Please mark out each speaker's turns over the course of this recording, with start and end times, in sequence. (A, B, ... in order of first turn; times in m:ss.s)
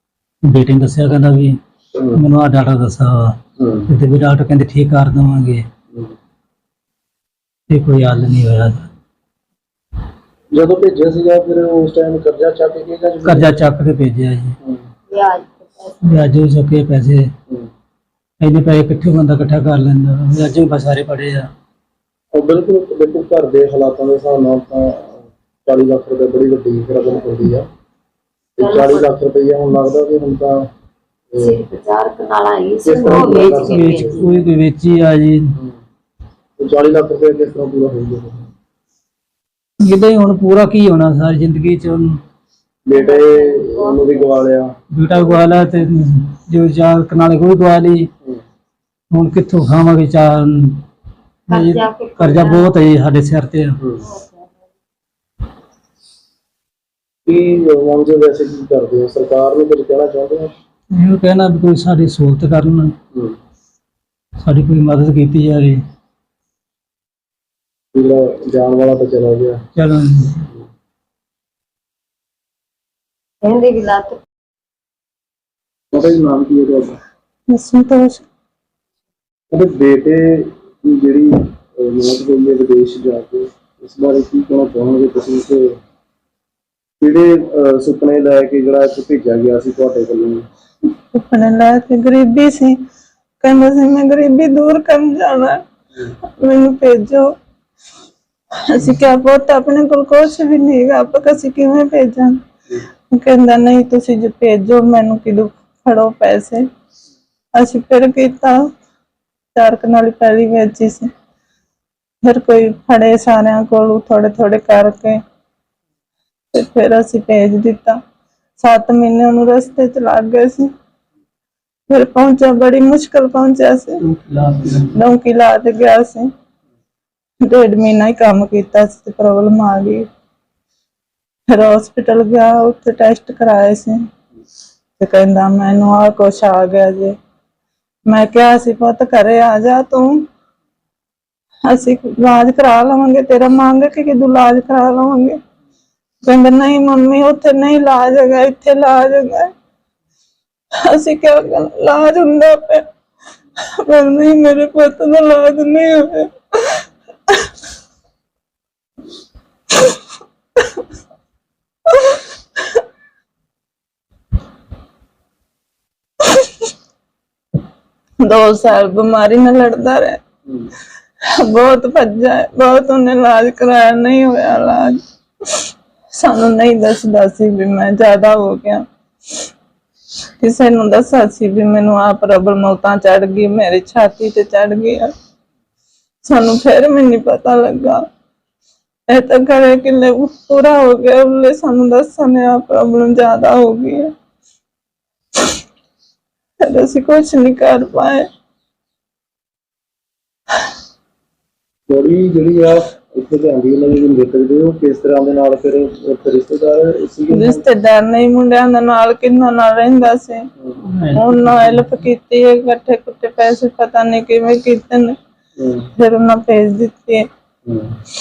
0:00.4-0:01.6 A
0:02.0-0:02.2 B
0:02.1-0:03.4 A
0:03.6-0:03.9 B
0:03.9-0:05.6 A
0:07.7-0:08.9 A
0:10.5-0:13.6 B
0:13.2-0:14.6 A
0:15.1-0:16.3 C
0:16.0-0:17.3 A
0:18.4-0:21.5 A
0:22.3-0:27.7 B
0:28.6-0:30.7 B
0:28.6-0:29.1 C
0:31.3-0:31.6 B
0:31.4-0:34.4 C
0:32.8-0:34.2 B
0:33.0-0:35.6 A
0:36.6-0:38.5 B
0:39.8-0:42.2 A
0:42.9-0:44.8 B
0:42.9-0:44.2 C
0:44.9-0:48.1 A
0:49.1-0:50.8 A
0:51.5-0:52.8 C
0:51.5-0:53.8 A
0:54.0-0:54.6 C
0:57.3-1:00.5 B
1:00.9-1:03.0 A
1:04.4-1:05.8 A
1:07.9-1:09.6 B
1:09.8-1:10.5 A
1:13.4-1:14.2 C
1:15.9-1:17.0 B
1:17.5-1:18.2 D
1:19.5-1:25.8 B
1:27.0-1:30.5 B
1:31.1-1:32.8 D
1:33.4-1:35.6 D
1:36.4-1:37.3 D
1:38.6-1:42.4 D
1:43.1-1:46.6 D
1:47.6-1:48.6 D
1:49.6-1:51.1 D
1:52.2-1:55.2 D
1:56.5-1:58.0 D
1:58.6-2:00.7 D
2:01.9-2:04.0 D
2:04.0-2:04.9 A
2:04.9-2:06.3 D
2:07.4-2:10.1 D
2:11.5-2:14.0 D
2:15.0-2:17.2 D
2:18.1-2:20.2 D
2:21.7-2:25.4 D
2:26.2-2:29.5 D
2:30.9-2:32.8 D
2:33.8-2:36.8 D
2:48.2-2:50.2 D
2:51.4-2:55.0 D
2:56.1-2:58.8 D
3:00.4-3:05.1 D
3:06.2-3:08.0 D
3:09.1-3:14.1 D
3:16.6-3:18.3 D
3:21.9-3:27.6 B
3:27.3-3:30.4 D
3:30.9-3:32.0 A
3:31.1-3:35.2 D
3:35.6-3:35.9 B
3:36.0-3:37.2 D
3:37.6-3:37.9 B